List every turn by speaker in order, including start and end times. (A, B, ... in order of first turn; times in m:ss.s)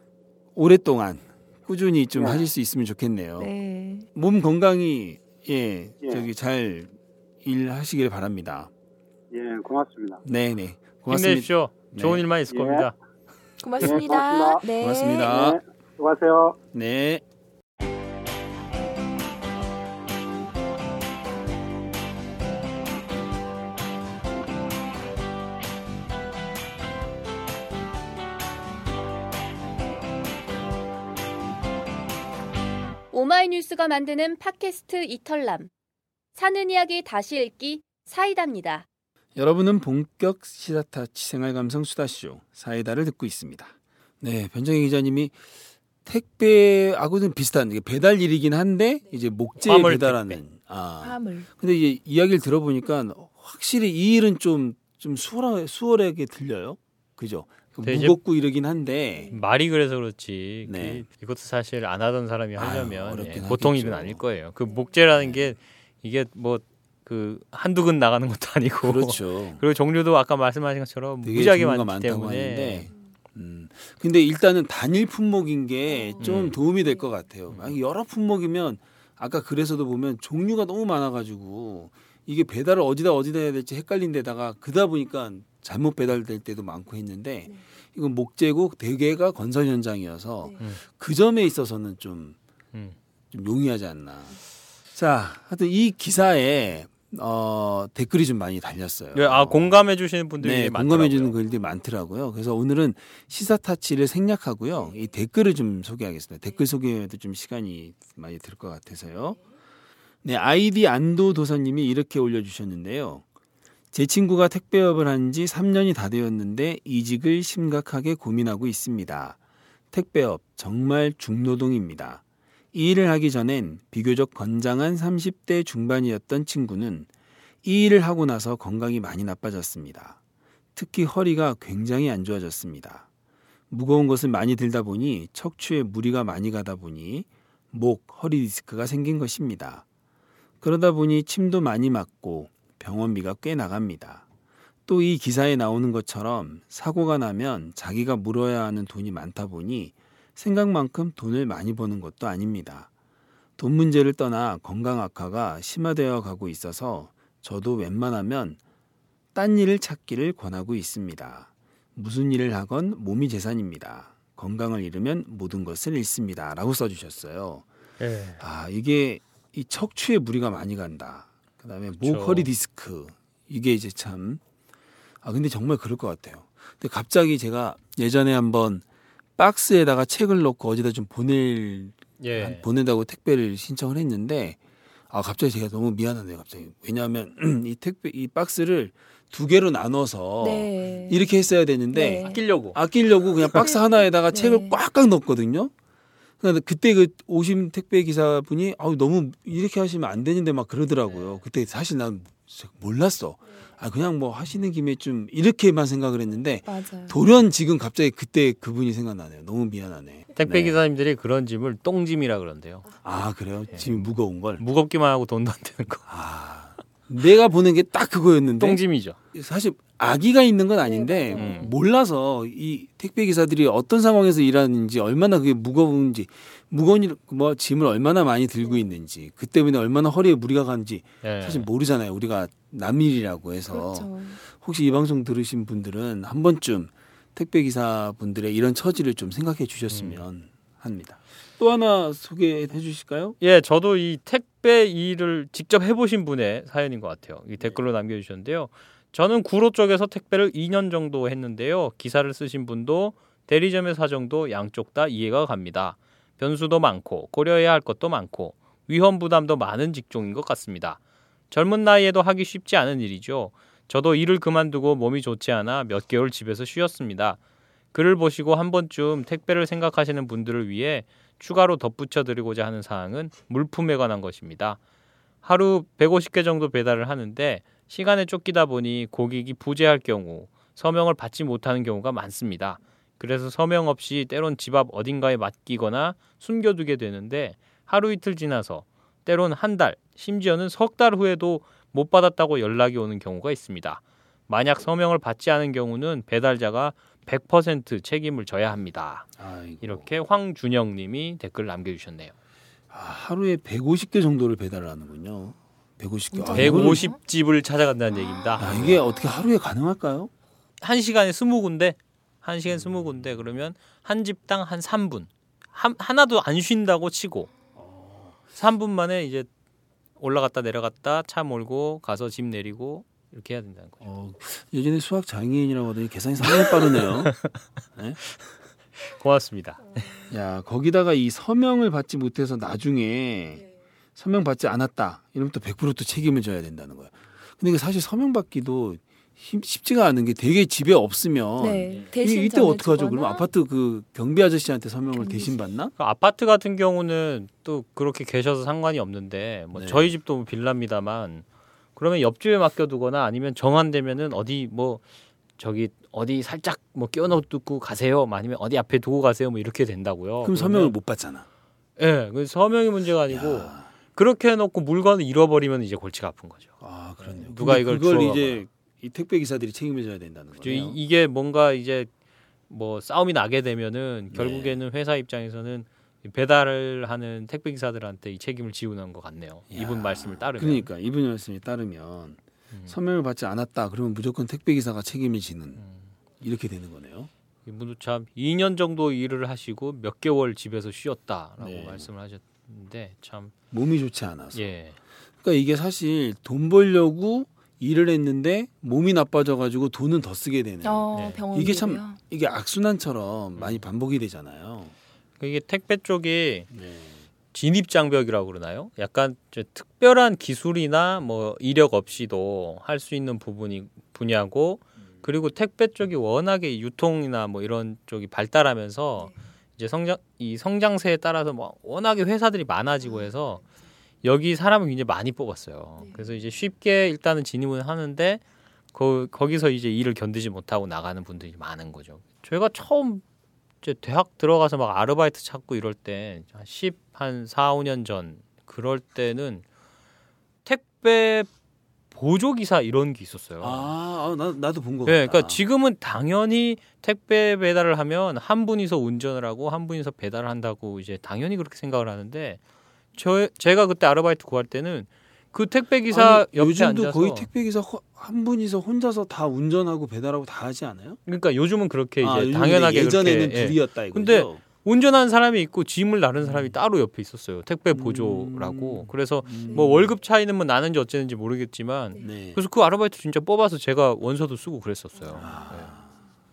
0:00.5-0:03.5 A
0:02.2-0:02.4 B
0:03.4-0:04.1 C
0:04.1-0:08.7 A
0:09.3-0:10.2 B
0:10.2-0:12.2 A
0:11.1-0:12.9 D
0:12.5-0:12.9 B
0:13.6-0:15.3 C
0:13.8-0:14.6 B
0:14.8-0:15.6 A
0:15.2-0:16.6 B
0:16.7-0:17.2 A
0:33.1-0:35.7 E
0:36.3-0:38.8 E
0:39.4-0:45.4 A
0:46.0-0:59.3 A
0:49.6-0:50.4 D
0:51.0-0:51.5 C
0:57.8-0:58.2 D
0:59.3-1:12.9 D
1:00.6-1:01.0 A
1:02.6-1:04.2 A
1:05.2-1:05.6 A
1:08.8-1:09.6 A
1:11.2-1:32.4 A
1:15.9-1:17.1 C
1:16.2-1:16.6 D
1:17.5-1:17.8 D
1:33.3-1:34.4 A
1:34.9-1:39.8 A
1:39.1-1:41.4 D
1:40.4-1:49.4 A
1:50.2-1:53.2 A
1:53.9-1:59.4 A
1:59.9-2:02.2 A
2:02.7-2:07.1 A
2:07.6-2:10.2 A
2:10.7-2:13.0 A
2:13.7-2:19.8 A
2:20.6-2:24.2 A
2:24.9-2:32.9 A
2:33.6-2:38.6 A
2:39.3-2:47.6 A
2:48.0-2:48.4 D
2:48.4-2:54.4 A
2:52.0-2:52.5 D
2:55.2-2:58.8 A
2:59.4-3:04.6 A
3:02.2-3:02.6 D
3:05.1-3:15.7 A
3:10.4-3:11.3 C
3:11.9-3:12.4 C
3:12.1-3:12.8 D
3:14.3-3:14.8 C
3:16.4-3:30.8 A
3:26.6-3:27.2 C
3:30.4-3:32.8 D
3:33.0-3:34.6 A
3:34.6-3:36.0 D
3:36.1-4:03.4 A
3:38.6-3:39.2 D
3:40.8-3:41.6 C
3:41.4-3:41.7 D
3:51.2-3:51.7 D
3:53.7-3:54.4 C
3:59.9-4:00.2 D
4:03.4-4:21.0 D
4:21.5-4:27.4 D
4:27.9-4:34.8 D
4:35.4-5:02.3 D
4:59.4-5:00.1 A
5:02.9-5:07.1 A
5:06.3-5:07.2 C
5:06.5-5:09.0 D
5:08.6-5:10.3 A
5:10.8-5:17.5 D
5:17.8-5:18.4 A
5:18.5-5:19.5 D
5:20.2-5:24.1 D
5:24.0-5:27.4 A
5:26.5-5:27.5 D
5:29.0-5:30.0 D
5:30.3-5:45.9 A
5:41.6-5:43.4 C
5:45.1-5:45.6 C
5:46.0-5:55.0 D
5:49.7-5:50.1 A
5:55.6-6:00.9 D
6:00.4-6:01.4 A
6:02.0-6:08.6 D
6:03.3-6:03.9 A
6:06.8-6:11.0 A
6:10.6-6:12.1 D
6:12.7-6:20.9 D
6:14.3-6:14.8 A
6:19.7-6:25.8 A
6:25.8-6:26.1 D
6:26.4-6:27.3 A
6:27.6-6:33.5 D
6:31.6-6:32.1 A
6:33.7-6:34.6 A
6:34.5-6:35.0 D
6:35.4-6:44.9 A
6:40.8-6:42.2 C
6:41.1-6:41.4 D
6:43.6-6:43.8 D
6:45.4-6:46.7 D
6:46.7-6:47.2 A
6:47.5-7:03.6 D
7:04.2-7:08.4 D
7:08.9-7:13.2 D
7:13.8-7:19.6 D
7:20.6-7:21.5 D
7:22.1-7:23.9 D
7:23.6-7:25.6 A
7:25.0-7:32.6 D
7:33.1-7:37.5 D
7:36.1-7:41.2 A
7:41.2-7:55.9 D
7:42.2-7:44.6 A
7:46.4-7:46.8 A
7:47.9-7:50.1 A
7:52.2-7:52.6 A
7:55.2-7:55.6 C
7:55.3-7:56.2 A